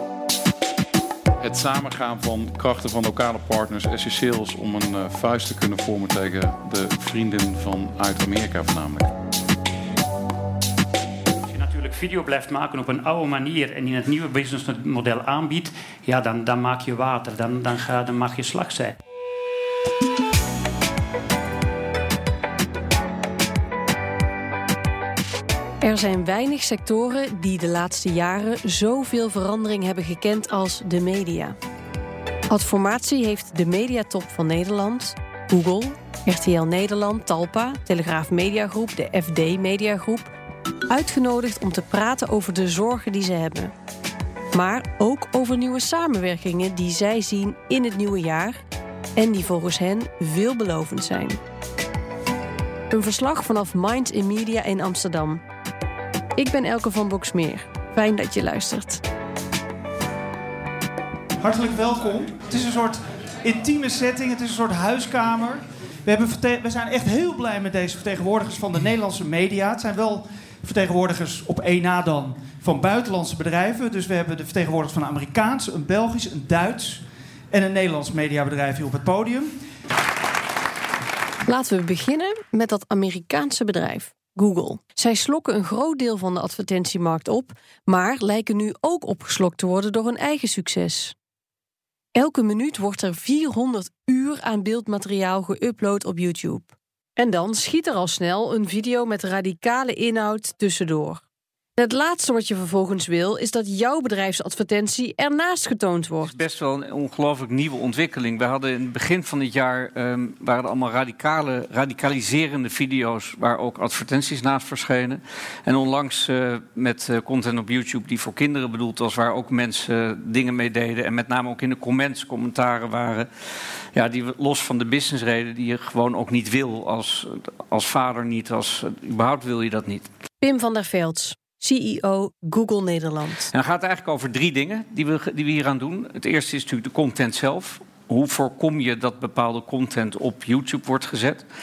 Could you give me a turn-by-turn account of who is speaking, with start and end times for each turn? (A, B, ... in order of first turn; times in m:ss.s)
0:01.4-0:09.1 A
0:11.4-0:19.0 B
0:25.8-0:31.5 C
0:32.5-0:40.3 C
0:40.9-0:43.7 C
0:44.5-0:48.6 C
0:49.2-0:51.4 C
0:52.9-0:55.4 C
0:56.4-0:59.0 C
1:01.4-1:19.5 D
1:21.5-1:31.1 C
1:32.2-1:41.2 C
1:41.8-1:46.3 C
1:46.2-2:03.3 E
2:03.9-2:10.1 E
2:10.4-2:13.5 C
2:13.5-2:21.4 E